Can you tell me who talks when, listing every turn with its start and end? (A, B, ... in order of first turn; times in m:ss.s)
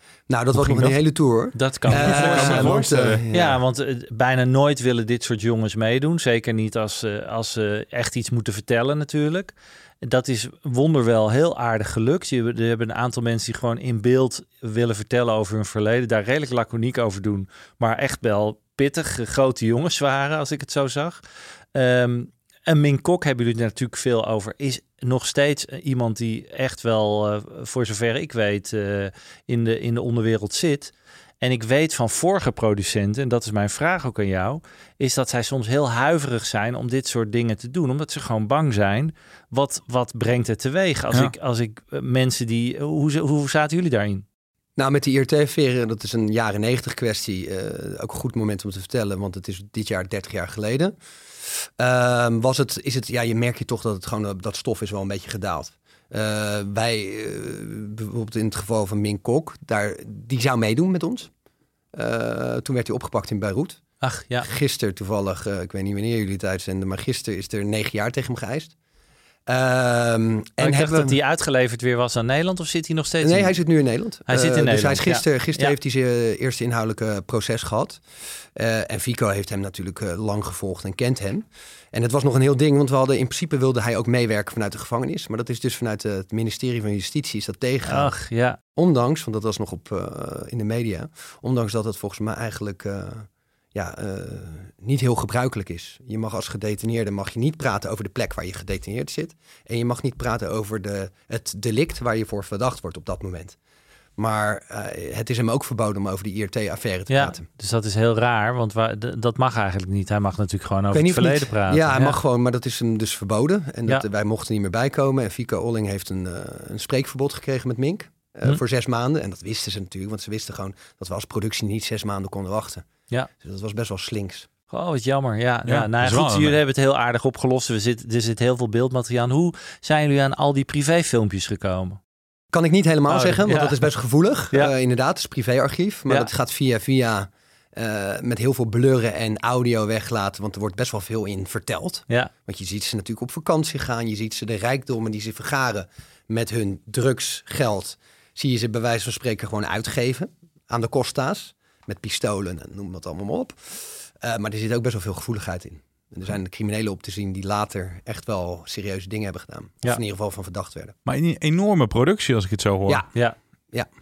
0:00.3-0:03.6 A
0:00.6-0:01.0 B
0:01.6-0:21.2 C
0:01.9-0:03.2 B
0:21.7-0:44.2 C
0:44.8-1:01.3 A
1:01.9-1:03.8 A
1:04.0-1:04.5 C
1:04.4-1:08.7 A
1:09.5-1:11.2 A
1:10.6-1:13.6 C
1:13.2-1:18.0 A
1:14.3-1:15.7 C
1:18.6-1:28.2 A
1:27.9-1:28.6 C
1:28.7-1:43.6 A
1:44.2-1:47.4 A
1:47.1-1:52.2 C
1:50.9-2:02.9 A
2:03.4-2:04.5 A
2:04.7-2:12.0 C
2:05.6-2:06.6 B
2:12.5-2:40.9 A
2:13.1-2:13.8 C
2:41.0-2:43.0 B